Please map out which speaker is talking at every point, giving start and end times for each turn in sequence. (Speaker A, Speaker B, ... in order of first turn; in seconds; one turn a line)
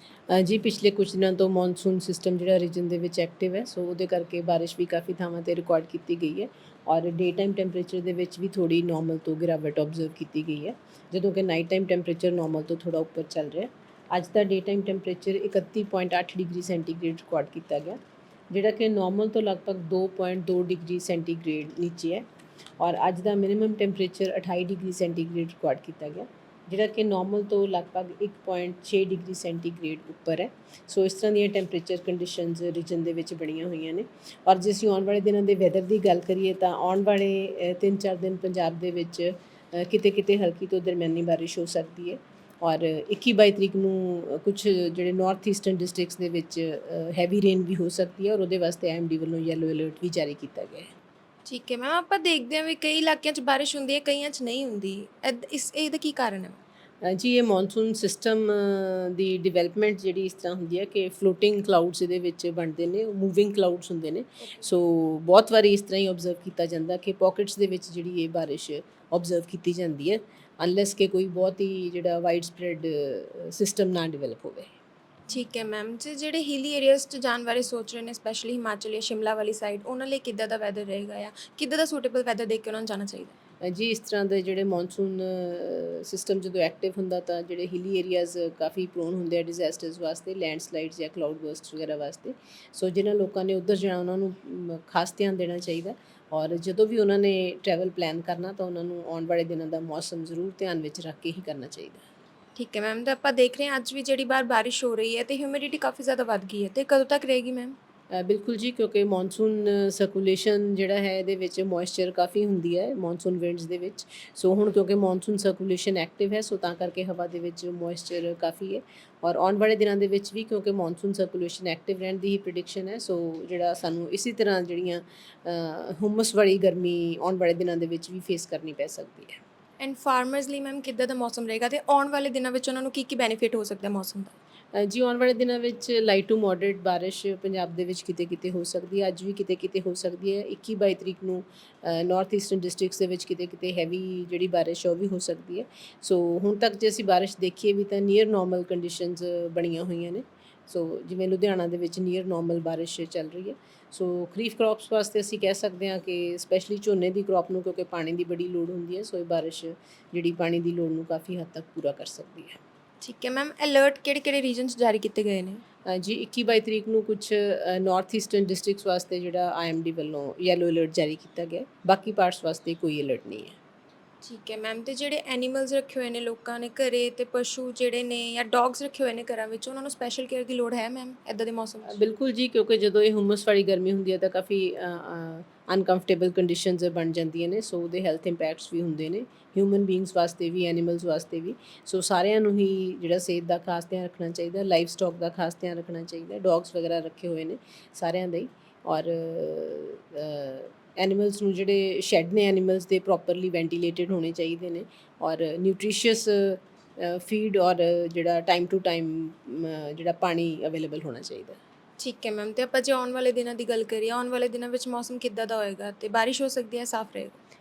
Speaker A: 0.3-18.0
Speaker A: 18.5-22.2
Speaker A: 22.8-50.9
Speaker B: 51.5-56.6
Speaker A: 57.0-74.7
Speaker B: 64.4-64.7
Speaker B: 75.3-83.3
Speaker A: 83.6-102.0
Speaker B: 102.6-107.8
Speaker A: 108.1-129.4
Speaker B: 129.8-134.3
Speaker A: 134.8-162.6
Speaker B: 163.0-165.6
Speaker A: 165.9-173.6
Speaker B: 174.2-182.0
Speaker A: 181.9-211.6
Speaker B: 212.0-217.4